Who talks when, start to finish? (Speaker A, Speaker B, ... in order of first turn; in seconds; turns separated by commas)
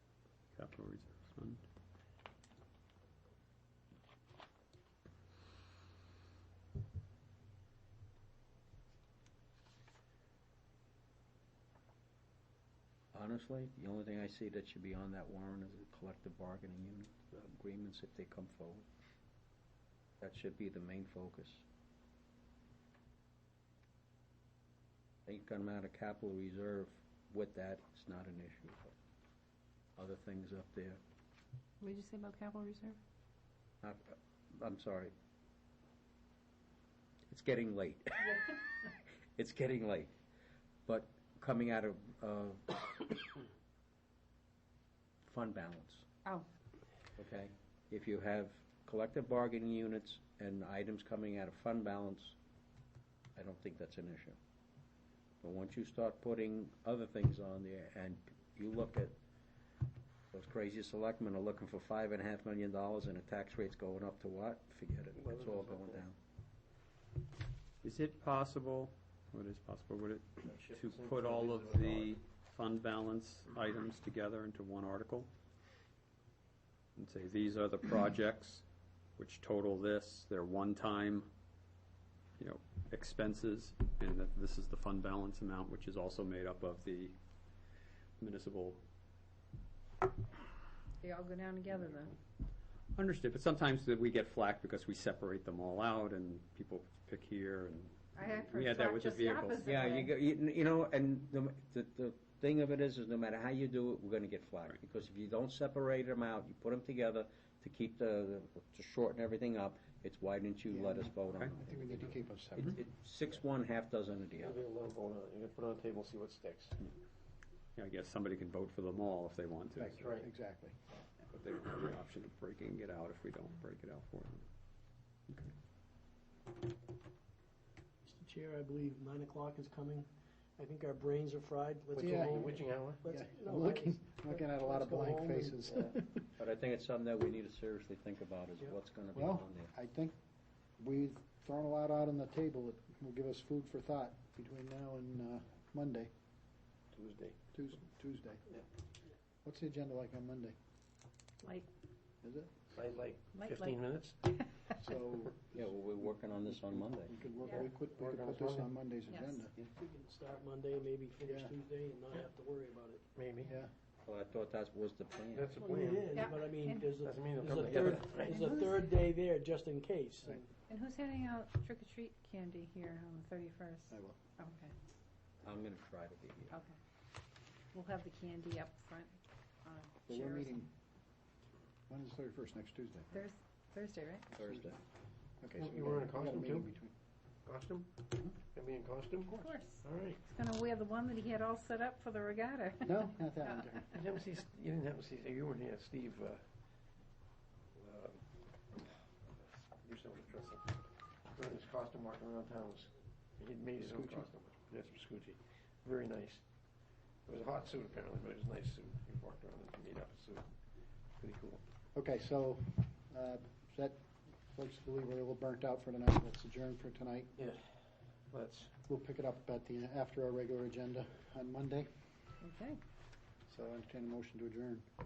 Speaker A: 0.5-1.6, Speaker B: 13.1-18.9, Speaker B: 20.2-21.6, Speaker B: 25.3-28.9, Speaker B: 30.0-31.0, Speaker C: 31.8-33.0, Speaker B: 33.8-35.1, Speaker B: 37.3-38.6, Speaker B: 39.4-40.1, Speaker B: 40.9-43.1, Speaker B: 45.2-46.1, Speaker B: 47.2-52.4, Speaker B: 53.4-54.4, Speaker B: 55.4-59.2, Speaker B: 60.3-66.2, Speaker D: 65.2-66.0, Speaker A: 67.8-75.3, Speaker D: 70.4-72.2, Speaker A: 77.0-78.7, Speaker A: 79.2-81.3, Speaker A: 82.4-87.2, Speaker A: 88.2-88.8, Speaker C: 91.0-92.2, Speaker A: 93.0-99.8, Speaker C: 98.2-100.1, Speaker B: 99.7-114.6, Speaker E: 110.7-112.8, Speaker D: 114.4-116.9, Speaker A: 117.8-120.2, Speaker D: 119.8-120.3, Speaker E: 120.2-120.8, Speaker A: 121.3-124.5, Speaker F: 128.1-135.9, Speaker E: 131.9-136.3, Speaker D: 132.0-133.0, Speaker B: 136.4-139.7, Speaker E: 139.1-140.2, Speaker E: 140.8-146.1, Speaker D: 146.9-147.4, Speaker E: 147.5-148.5, Speaker E: 149.4-150.6, Speaker E: 152.2-152.6, Speaker D: 152.7-154.2, Speaker C: 153.3-154.6, Speaker E: 154.8-159.6, Speaker B: 155.6-157.2, Speaker D: 157.4-158.7, Speaker C: 159.1-159.4, Speaker F: 159.6-163.1, Speaker E: 161.3-161.5, Speaker D: 163.1-163.5, Speaker E: 163.4-163.7, Speaker B: 164.0-165.6, Speaker D: 165.3-166.2, Speaker F: 165.5-170.5, Speaker C: 166.1-166.9, Speaker D: 167.0-168.6, Speaker C: 168.2-168.9, Speaker C: 170.7-174.7, Speaker E: 173.9-174.2, Speaker B: 175.4-176.5, Speaker C: 176.5-176.8, Speaker C: 177.7-180.6, Speaker E: 180.1-180.7, Speaker E: 181.9-183.2, Speaker C: 183.1-184.3, Speaker E: 184.3-184.8, Speaker B: 184.4-184.8, Speaker E: 185.4-186.9, Speaker D: 185.5-186.7, Speaker D: 187.5-190.2, Speaker C: 189.3-193.8, Speaker E: 192.8-194.0, Speaker D: 193.9-196.4, Speaker D: 197.8-198.2, Speaker D: 199.8-200.8, Speaker D: 201.3-206.4, Speaker E: 203.8-204.3, Speaker D: 207.3-210.5, Speaker D: 211.2-211.6, Speaker E: 211.9-217.3, Speaker D: 217.4-217.7, Speaker D: 218.3-218.7, Speaker E: 218.9-221.9, Speaker C: 222.4-222.8, Speaker E: 223.5-224.9